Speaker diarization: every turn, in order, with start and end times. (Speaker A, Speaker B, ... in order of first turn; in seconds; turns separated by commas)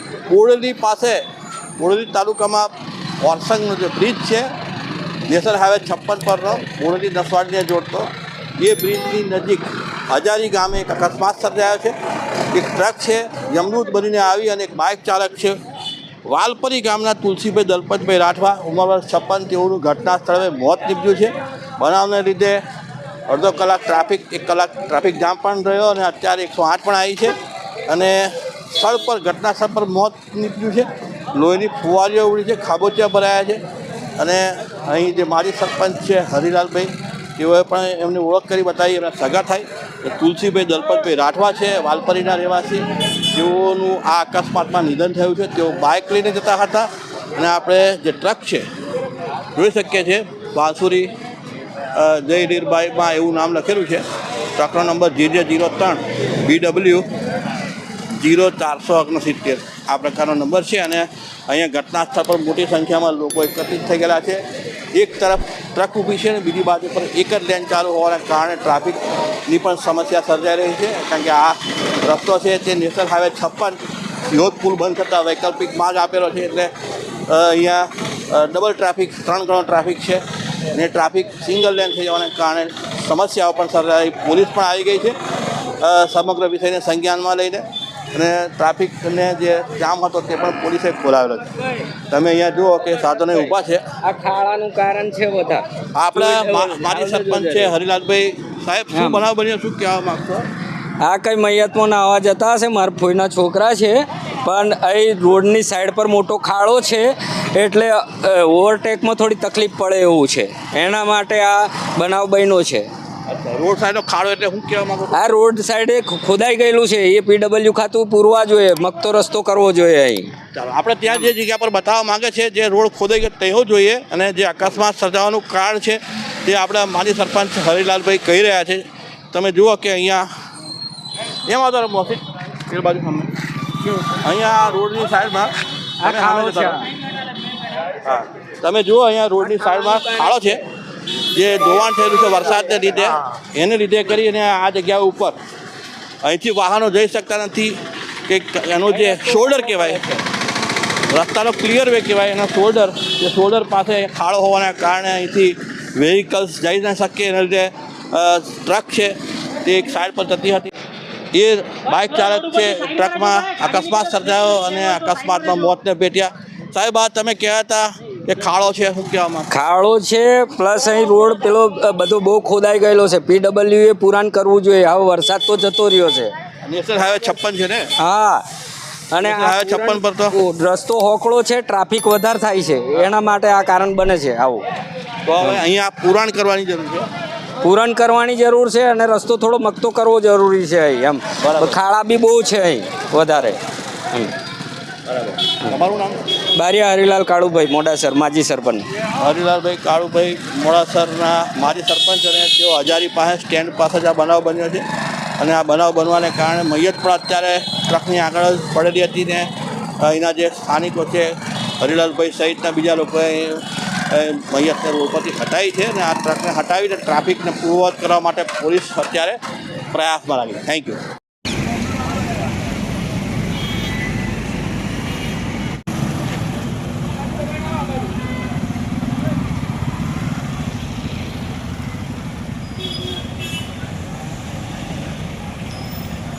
Speaker A: 0.3-1.2, Speaker A: 1.8-4.5, Speaker A: 5.3-11.9, Speaker A: 12.5-15.6, Speaker A: 16.2-22.6, Speaker A: 23.3-27.4, Speaker A: 27.9-33.6, Speaker A: 34.2-48.7, Speaker A: 49.5-51.1, Speaker A: 51.9-54.0, Speaker A: 54.6-57.1, Speaker A: 58.1-76.7, Speaker A: 77.3-85.2, Speaker A: 85.8-91.6, Speaker A: 92.1-93.8, Speaker B: 93.3-97.7, Speaker A: 96.0-100.5, Speaker B: 98.9-99.2, Speaker B: 101.0-112.9, Speaker A: 113.3-115.2, Speaker B: 115.1-120.3, Speaker A: 120.5-130.3, Speaker A: 131.4-133.3, Speaker A: 134.0-136.8, Speaker B: 136.0-136.9, Speaker A: 138.0-140.7, Speaker B: 139.4-140.4, Speaker A: 141.3-145.4, Speaker A: 146.2-150.0, Speaker B: 148.9-150.2, Speaker A: 151.1-160.7, Speaker A: 161.3-169.5, Speaker B: 169.5-176.3, Speaker A: 176.6-177.9, Speaker B: 178.0-178.5, Speaker B: 179.1-184.6, Speaker A: 179.2-180.4, Speaker A: 185.2-187.1, Speaker B: 187.6-193.6, Speaker A: 191.4-191.8, Speaker A: 195.1-196.2, Speaker B: 195.5-195.8, Speaker B: 196.6-198.9, Speaker A: 199.2-204.8, Speaker A: 205.4-219.4, Speaker A: 219.9-221.0